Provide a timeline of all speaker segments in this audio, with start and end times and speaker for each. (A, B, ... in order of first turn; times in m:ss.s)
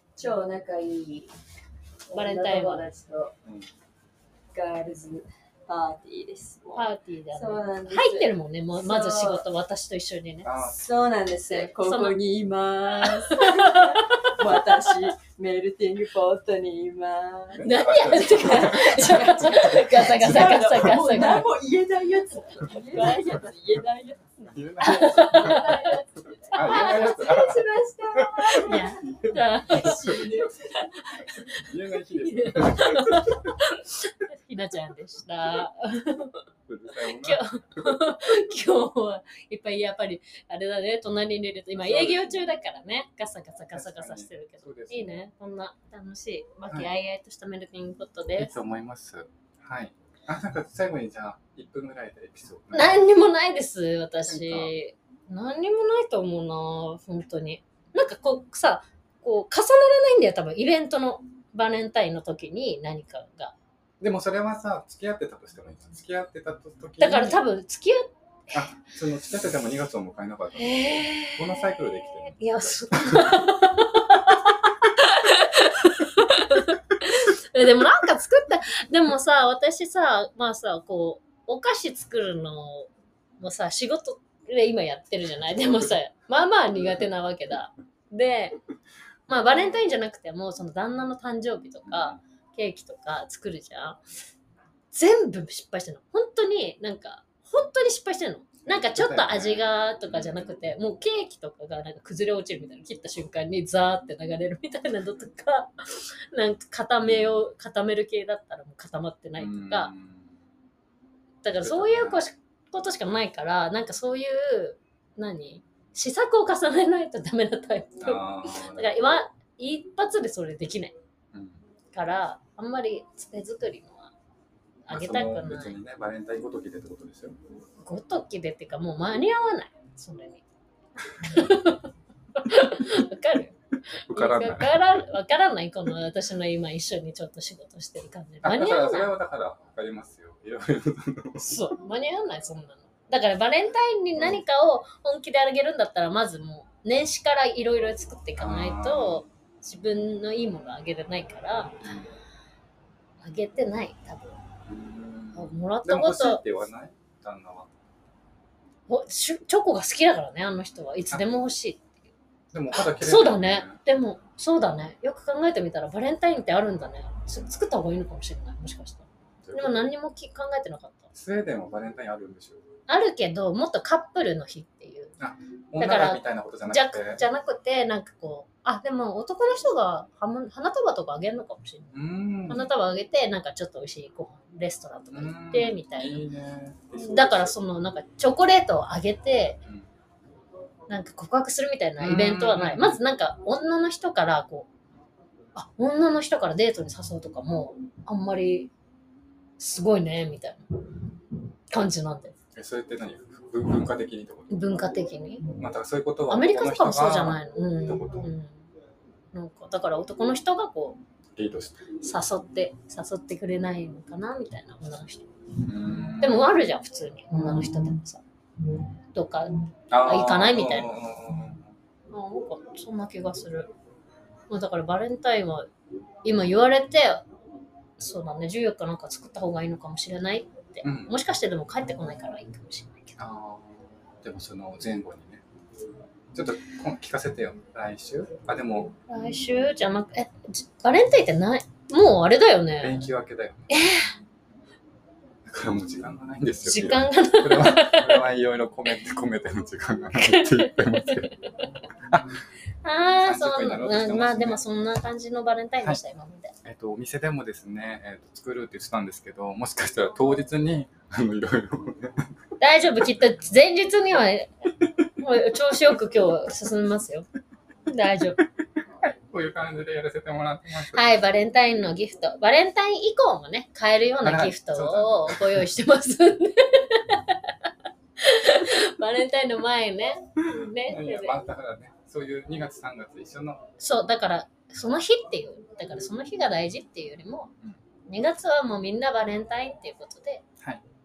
0:00.2-0:01.3 A
0:02.1-0:03.3 A
0:02.1-0:02.9 B
0:04.5-0:09.5 A
0:06.8-0:10.7 B
0:10.4-0:10.8 C
0:10.7-0:28.9 A
0:11.5-0:12.2 B
0:12.8-0:15.1 B
0:17.6-0:20.9 C
0:17.6-0:21.5 B
0:22.9-0:23.3 B
0:24.4-0:25.9 C
0:24.8-0:26.0 B
0:26.5-0:27.5 B
0:26.5-0:30.3 C
0:28.6-0:31.5 B
0:29.7-0:31.2 A
0:31.2-0:33.6 C
0:32.1-0:36.4 B
0:36.7-0:37.8 C
0:36.9-0:48.5 B
0:41.8-0:42.4 C
0:43.7-0:45.2 C
0:48.4-0:53.0 C
0:52.7-1:03.6 B
0:54.2-0:54.7 C
1:04.0-1:07.4 C
1:07.0-1:08.6 B
1:08.5-1:12.4 C
1:10.6-1:28.6 B
1:12.9-1:13.4 C
1:29.3-1:34.0 B
1:31.9-1:32.2 C
1:34.9-1:49.9 B
1:38.7-1:40.5 C
1:49.4-1:50.4 C
1:51.4-2:01.0 B
1:51.6-1:52.2 C
1:58.0-1:59.1 C
2:01.3-2:01.6 C
2:01.9-2:04.1 B
2:04.9-2:05.8 B
2:04.9-2:07.4 C
2:07.8-2:10.4 B
2:11.1-2:11.5 C
2:11.2-2:19.1 B
2:13.9-2:14.8 C
2:18.4-2:21.5 C
2:21.4-2:31.9 B
2:24.2-2:24.4 C
2:28.4-2:29.2 C
2:31.8-2:32.1 C
2:33.2-2:34.4 B
2:34.7-2:37.7 C
2:35.3-2:36.4 B
2:38.9-2:41.9 B
2:42.5-2:43.8 C
2:42.7-2:51.1 B
2:49.4-2:49.9 C
2:51.1-2:52.6 C
2:52.9-2:55.2 B
2:55.2-2:57.2 C
2:55.8-3:02.0 B
3:01.9-3:02.7 C
3:02.5-3:06.2 B
3:05.1-3:07.6 C
3:07.0-3:09.6 B
3:10.9-3:14.7 B
3:12.0-3:13.0 C
3:15.6-3:18.7 B
3:19.6-3:21.1 B
3:21.7-3:22.4 B
3:22.6-3:24.8 C
3:24.5-3:25.5 B
3:25.6-3:28.3 C
3:26.3-3:28.6 B
3:29.3-3:31.0 B
3:31.4-3:31.9 C
3:32.0-3:35.3 B
3:35.6-3:36.5 C
3:36.2-3:38.2 B
3:39.1-3:41.1 B
3:39.9-3:41.7 C
3:42.1-3:43.7 B
3:44.5-3:45.7 B
3:46.2-3:47.2 B
3:48.0-3:53.2 B
3:50.8-3:51.2 C
3:53.2-3:55.4 C
3:56.3-3:59.0 C
3:59.1-4:03.0 B
4:02.8-4:03.7 C
4:03.7-4:04.1 B
4:05.5-4:11.4 C
4:06.7-4:08.3 B
4:10.2-4:11.7 B
4:12.8-4:16.6 B
4:13.2-4:14.6 C
4:16.6-4:22.3 C
4:22.6-4:24.5 B
4:24.8-4:25.1 C
4:25.2-4:27.3 B
4:27.9-4:28.4 B
4:29.0-4:31.1 C
4:30.9-4:41.4 B
4:34.2-4:35.7 C
4:40.4-4:43.7 C
4:43.8-4:47.5 B
4:48.1-4:50.4 B